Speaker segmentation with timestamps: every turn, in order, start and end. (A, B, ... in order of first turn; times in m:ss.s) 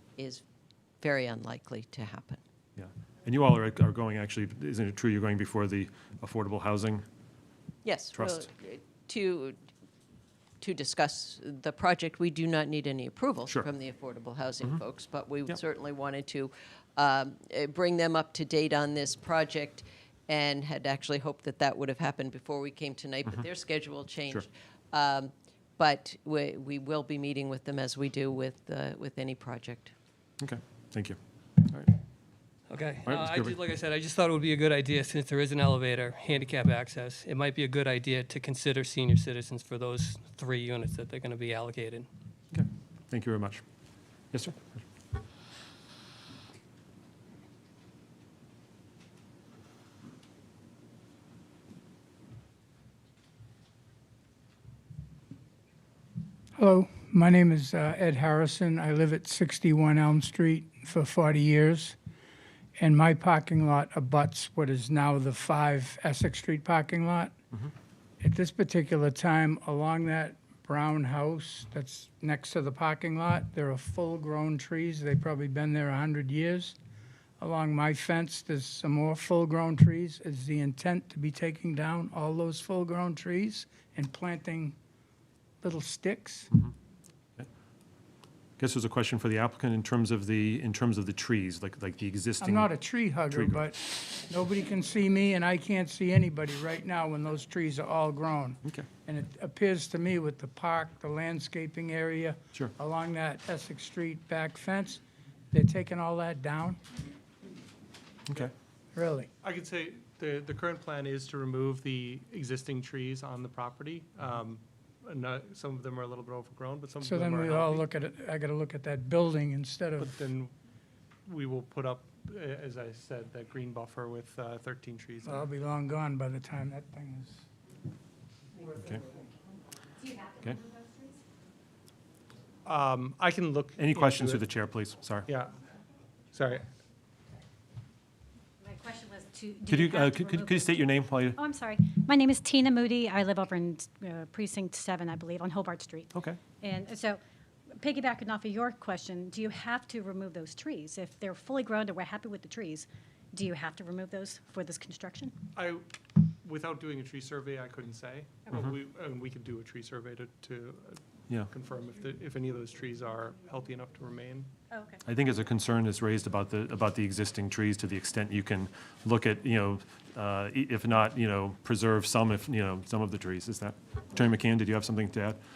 0:00.2-0:00.4 A
0:01.0-0:02.4 A
0:02.8-0:07.0 B
0:07.8-0:09.6 A
0:08.1-0:08.4 B
0:10.6-0:29.9 A
0:30.4-0:31.2 B
0:32.7-0:42.1 C
0:33.0-0:33.6 B
0:42.5-0:43.6 B
0:44.3-0:44.6 B
0:56.6-1:02.0 D
1:02.8-1:07.3 D
1:08.2-1:16.8 D
1:17.4-1:24.8 D
1:25.6-1:26.5 D
1:28.6-1:32.7 B
1:32.4-1:45.0 D
1:33.3-1:33.6 B
1:45.5-1:46.8 D
1:49.0-1:49.3 D
1:49.4-1:57.8 E
1:57.0-2:00.2 D
2:00.0-2:00.5 E
2:01.3-2:05.4 E
2:05.3-2:07.4 D
2:12.7-2:14.2 E
2:13.8-2:15.3 B
2:16.3-2:16.6 E
2:18.6-2:27.2 F
2:19.7-2:21.4 B
2:26.1-2:26.4 B
2:27.8-2:35.4 F
2:36.4-2:40.9 E
2:41.6-2:44.5 E
2:44.7-2:45.0 F
2:45.0-2:55.4 B